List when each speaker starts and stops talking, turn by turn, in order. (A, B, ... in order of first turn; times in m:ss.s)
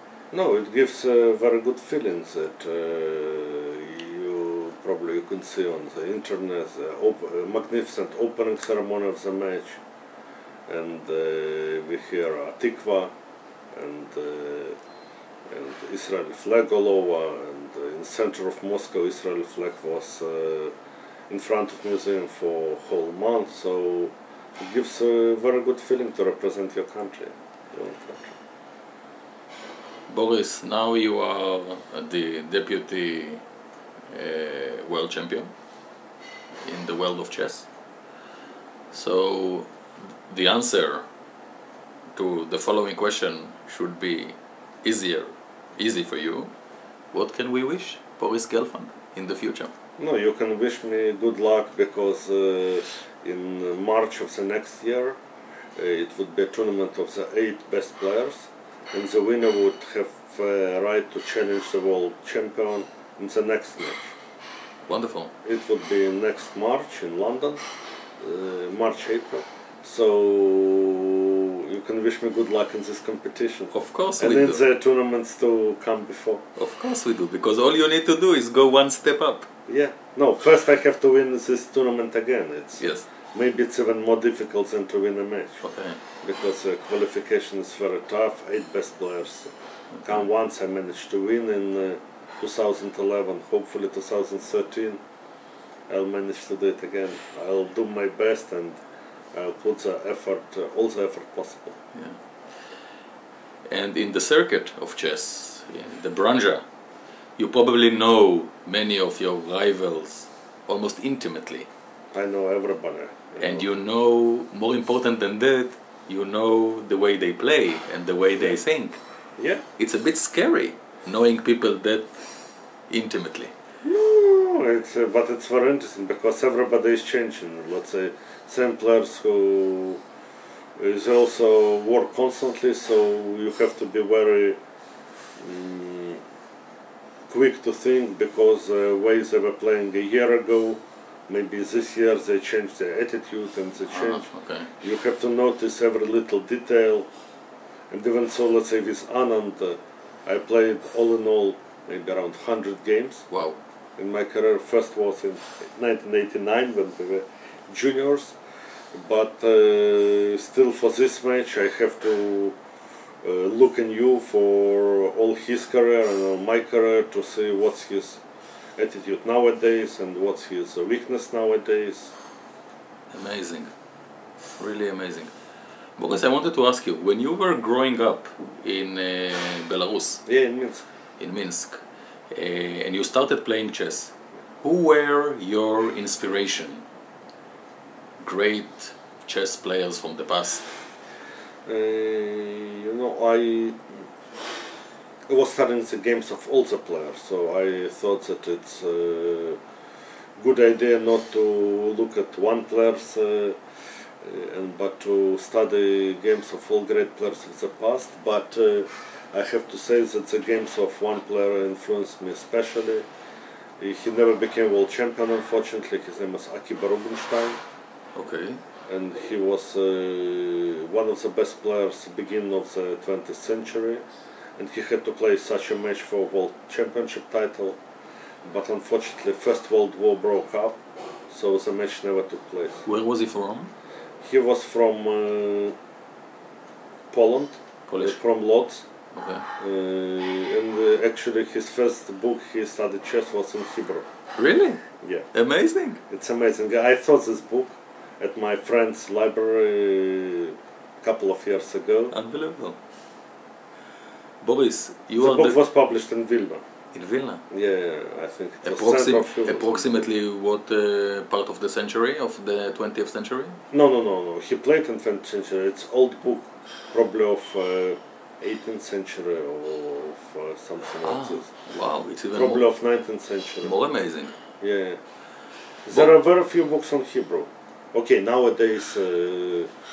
0:00.3-0:09.8 A
0:10.7-0:13.1 A
0:13.7-0:14.8 A
0:15.5-0:20.7 A
0:21.3-0:28.4 A
0:30.1-0:33.4 B
0:34.1-0:35.5 B
0:36.6-0:37.7 B
0:38.9-0:39.7 B
0:40.3-0:41.0 B
0:42.2-0:46.5 B
0:47.1-0:49.7 B
0:50.0-0:55.2 A
0:55.8-1:04.1 A
1:04.9-1:05.3 B
1:05.4-1:07.6 A
1:08.2-1:16.4 A
1:13.7-1:14.6 B
1:16.6-1:19.5 B
1:19.7-1:25.6 A
1:22.8-1:23.1 B
1:25.6-1:26.0 B
1:26.2-1:29.5 A
1:30.0-1:35.0 A
1:35.9-1:38.8 A
1:39.3-1:41.8 A
1:43.7-1:46.6 B
1:47.4-1:51.7 B
1:52.1-1:53.7 A
1:53.4-1:59.0 B
1:59.4-1:59.6 A
1:59.8-2:02.1 B
2:02.9-2:03.5 B
2:03.8-2:10.0 A
2:10.8-2:14.6 A
2:15.4-2:16.2 A
2:17.3-2:24.3 A
2:23.9-2:24.7 B
2:24.8-2:27.1 A
2:27.9-2:33.3 A
2:33.3-2:33.6 B
2:34.0-2:38.4 A
2:39.0-2:42.6 A
2:43.2-2:48.2 A
2:48.8-2:52.2 A
2:53.1-2:53.7 B
2:54.6-2:55.3 B
2:56.0-3:00.2 B
3:00.3-3:00.9 A
3:01.2-3:01.8 B
3:02.3-3:06.8 B
3:08.2-3:10.7 B
3:11.7-3:13.8 A
3:15.3-3:19.6 A
3:20.4-3:23.6 A
3:24.2-3:33.0 A
3:33.8-3:37.6 A
3:38.2-3:38.6 B
3:38.9-3:44.0 A
3:44.6-3:47.8 A
3:48.5-3:52.9 A
3:52.9-3:53.7 B
3:54.2-3:55.8 A
3:57.1-3:58.9 A
3:57.9-3:58.2 B
3:59.1-3:59.5 B
3:59.6-4:04.0 A
4:04.4-4:06.0 B
4:05.0-4:05.3 A
4:06.1-4:12.1 A
4:12.1-4:12.8 B
4:14.4-4:15.6 B
4:15.2-4:16.6 A
4:16.9-4:17.4 B
4:17.5-4:20.1 A
4:18.6-4:23.6 B
4:23.7-4:31.5 A
4:31.0-4:32.7 B
4:32.3-4:33.8 A
4:33.6-4:34.4 B
4:34.6-4:35.0 A
4:35.9-4:39.7 A